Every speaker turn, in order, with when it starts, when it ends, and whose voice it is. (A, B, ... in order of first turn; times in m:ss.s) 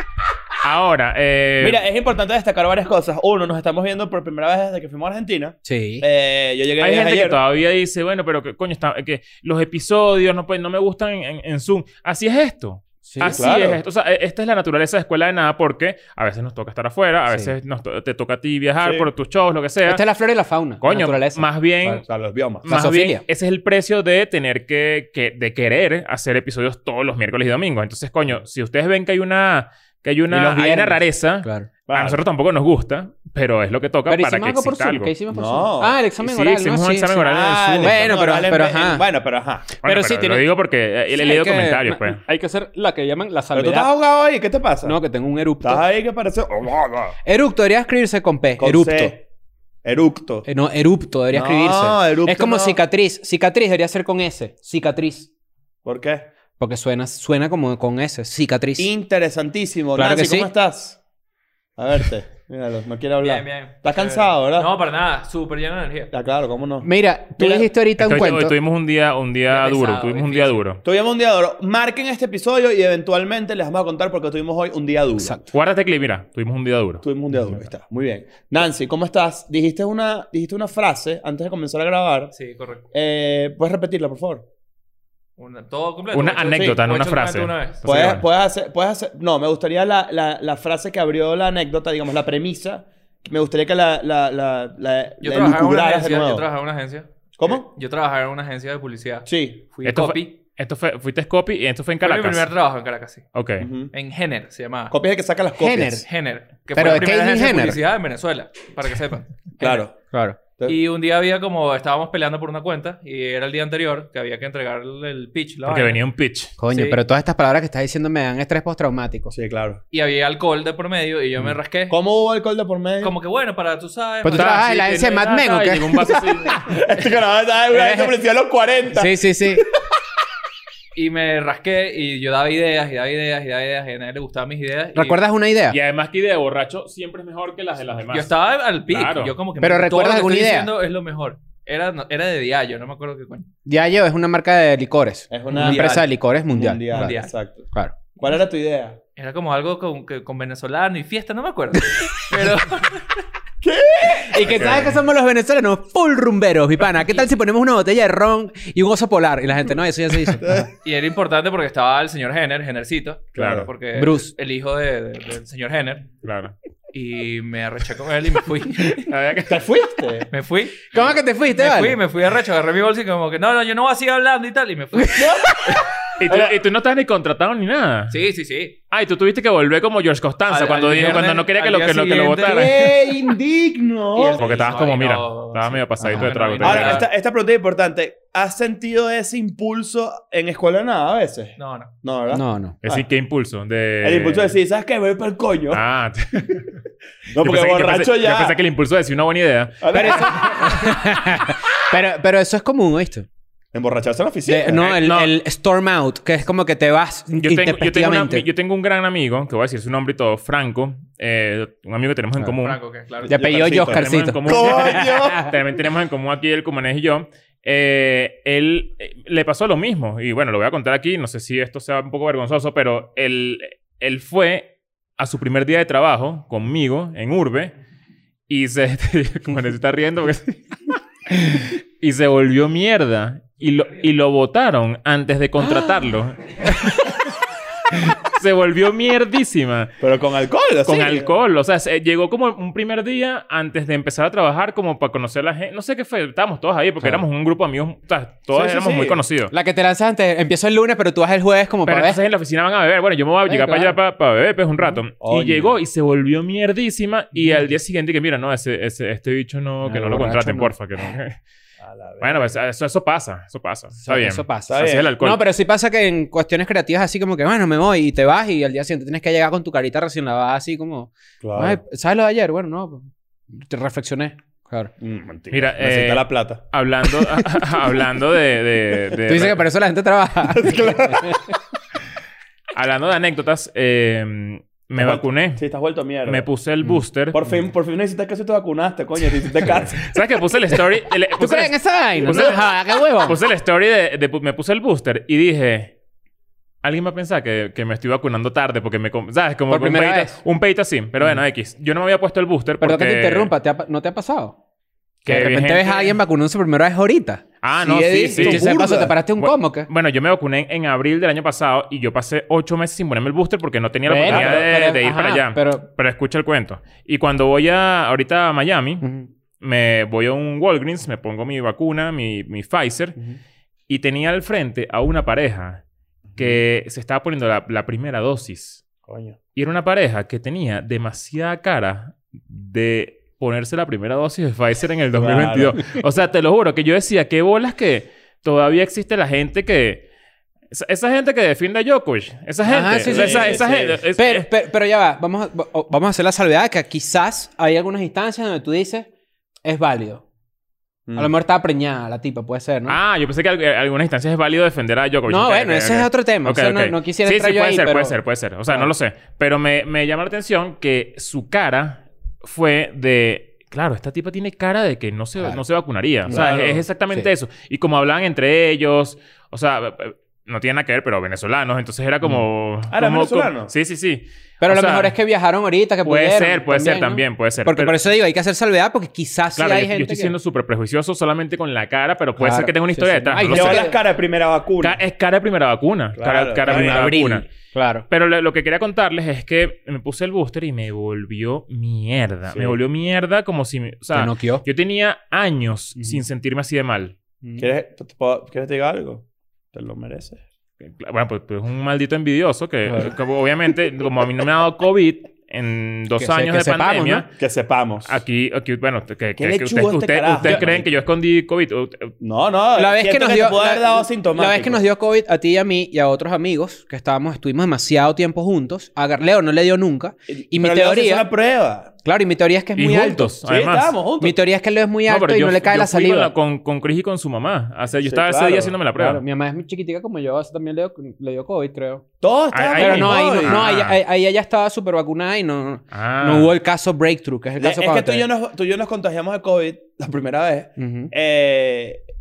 0:00.6-0:01.8 A
0:01.6-0:07.4 B
0:05.6-0:06.0 C
0:06.8-0:20.0 A
0:13.1-0:13.4 C
0:13.3-0:13.8 B
0:18.8-0:19.1 B
0:19.8-0:22.0 C
0:20.8-0:22.0 A
0:22.0-0:22.7 B
0:22.6-0:35.1 A
0:22.7-0:23.2 C
0:30.3-0:31.7 C
0:31.9-0:32.2 B
0:34.1-0:39.0 C
0:35.3-0:36.0 B
0:36.2-0:38.2 A
0:37.2-0:39.7 B
0:39.8-0:40.4 C
0:39.8-0:42.2 A
0:41.1-0:43.9 C
0:43.5-0:45.0 B
0:44.8-0:45.8 C
0:45.6-0:47.2 B
0:47.2-0:49.1 C
0:48.6-0:49.2 B
0:49.8-0:50.5 B
0:50.4-0:55.3 C
0:51.3-0:52.8 B
0:55.8-0:56.2 B
0:56.6-0:58.9 C
0:58.8-1:01.0 B
0:59.9-1:00.5 C
1:01.8-1:04.7 B
1:03.2-1:06.1 D
1:06.1-1:08.3 B
1:06.8-1:08.6 C
1:08.0-1:10.8 A
1:09.5-1:10.6 D
1:10.8-1:15.4 B
1:15.5-1:17.0 A
1:17.0-1:22.3 B
1:22.3-1:22.8 D
1:22.9-1:24.4 B
1:25.4-1:28.1 D
1:26.1-1:28.2 A
1:26.5-1:26.8 B
1:27.8-1:36.4 B
1:35.2-1:40.3 D
1:37.4-1:37.7 B
1:39.2-1:39.6 B
1:39.8-1:42.5 A
1:42.0-1:43.2 D
1:43.3-1:43.7 A
1:43.6-1:43.9 B
1:43.9-1:44.9 D
1:44.9-1:46.0 B
1:45.6-1:46.0 C
1:46.0-1:49.8 D
1:46.7-1:47.8 C
1:49.6-1:49.9 B
1:50.1-1:50.4 C
1:50.6-1:56.0 D
1:55.6-1:56.5 A
1:56.6-1:59.3 C
1:56.7-1:57.0 D
1:59.3-1:59.8 B
1:59.9-2:02.0 D
2:01.9-2:03.1 B
2:03.0-2:04.6 D
2:04.2-2:06.2 C
2:04.3-2:06.7 A
2:06.5-2:09.7 B
2:07.7-2:08.1 C
2:08.9-2:09.7 C
2:10.9-2:15.2 D
2:14.9-2:15.8 C
2:15.7-2:18.3 A
2:18.1-2:23.5 D
2:18.9-2:19.4 A
2:19.6-2:20.7 C
2:23.6-2:27.1 C
2:25.3-2:29.0 B
2:25.5-2:26.1 D
2:26.9-2:27.3 D
2:29.2-2:33.2 D
2:33.6-2:34.9 B
2:34.1-2:40.7 C
2:34.6-2:35.0 A
2:40.4-2:40.7 B
2:40.8-2:46.1 D
2:43.3-2:43.7 B
2:43.4-2:43.6 A
2:43.9-2:44.3 C
2:46.2-2:46.5 A
2:46.9-2:49.1 D
2:49.0-2:49.7 A
2:49.5-2:50.3 B
2:50.3-2:50.9 D
2:50.9-2:52.0 C
2:51.5-2:55.4 D
2:55.1-2:56.5 B
2:56.2-2:58.2 A
2:58.1-2:58.8 D
2:58.9-3:02.9 A
3:00.5-3:03.1 D
3:02.4-3:04.7 B
3:04.1-3:07.1 D
3:04.4-3:07.1 A
3:06.0-3:13.0 B
3:11.6-3:11.9 D
3:12.3-3:12.8 C
3:12.8-3:14.6 A
3:14.0-3:15.8 B
3:15.7-3:16.8 A
3:17.3-3:18.6 B
3:17.4-3:20.8 A
3:19.8-3:20.8 B
3:19.9-3:23.3 C
3:23.7-3:25.0 B
3:24.4-3:28.4 C
3:24.8-3:25.3 A
3:27.4-3:32.8 A
3:32.6-3:33.6 D
3:33.2-3:35.4 B
3:33.2-3:35.5 C
3:33.9-3:47.7 A
3:48.5-3:50.7 A
3:51.3-3:57.3 A
3:57.9-4:00.0 A
4:00.0-4:01.3 B
4:00.8-4:09.5 A
4:08.5-4:09.2 B
4:09.5-4:12.2 C
4:11.9-4:21.4 A
4:13.5-4:14.0 C
4:15.2-4:15.7 B
4:17.4-4:17.6 C
4:19.8-4:21.0 C
4:21.8-4:22.5 B
4:22.2-4:25.4 A
4:24.0-4:34.9 C
4:24.7-4:25.1 B
4:31.4-4:31.8 B
4:35.0-4:36.6 B
4:35.5-4:39.6 A
4:39.3-4:41.5 C
4:40.5-4:41.4 B
4:42.7-4:45.6 A
4:44.9-4:46.5 B
4:46.2-4:47.4 A
4:47.3-4:50.1 B
4:49.6-4:55.9 A
4:51.4-4:53.4 C
4:56.8-5:03.5 A
4:59.7-5:00.4 C
5:02.8-5:04.6 C
5:05.2-5:06.2 A
5:05.3-5:07.4 C
5:07.6-5:08.8 A
5:07.8-5:09.1 B
5:08.2-5:09.9 C
5:09.4-5:19.0 A
5:14.0-5:15.8 C
5:14.2-5:14.6 B
5:19.0-5:19.3 C
5:19.6-5:23.2 A
5:23.9-5:25.8 A
5:26.3-5:26.6 B
5:26.4-5:28.8 A
5:29.1-5:29.4 B
5:29.5-5:40.0 A
5:35.1-5:35.8 B
5:40.7-5:44.5 A
5:42.6-5:43.6 C
5:43.0-5:44.0 B
5:44.2-5:49.1 C
5:49.6-5:50.2 C
5:51.2-5:53.0 C
5:52.9-6:15.1 A
5:55.3-5:58.2 C
6:06.3-6:06.8 B
6:12.9-6:13.7 B
6:14.6-6:20.3 C
6:16.0-6:18.0 A
6:19.6-6:23.9 A
6:22.4-6:24.0 C
6:23.4-6:25.0 B
6:24.8-6:27.5 A
6:26.2-6:27.3 B
6:26.6-6:28.0 C
6:28.1-6:37.1 A
6:32.5-6:32.8 B
6:34.1-6:34.6 C
6:37.4-6:37.7 C
6:37.6-6:40.4 B
6:40.8-6:47.3 A
6:46.2-6:47.2 C
6:47.4-6:48.2 B
6:48.0-6:52.1 A
6:49.4-6:50.9 B
6:50.4-6:50.7 C
6:52.2-6:54.8 B
6:52.8-7:01.3 C
7:00.3-7:01.9 B
7:02.0-7:03.3 C
7:02.8-7:03.9 A
7:03.4-7:04.4 B
7:04.2-7:06.3 C
7:05.1-7:09.2 A
7:08.0-7:08.8 B
7:09.0-7:12.0 C
7:12.2-7:13.6 B
7:12.5-7:14.0 A
7:12.8-7:18.3 C
7:15.9-7:16.5 A
7:17.6-7:22.0 B
7:20.8-7:21.1 C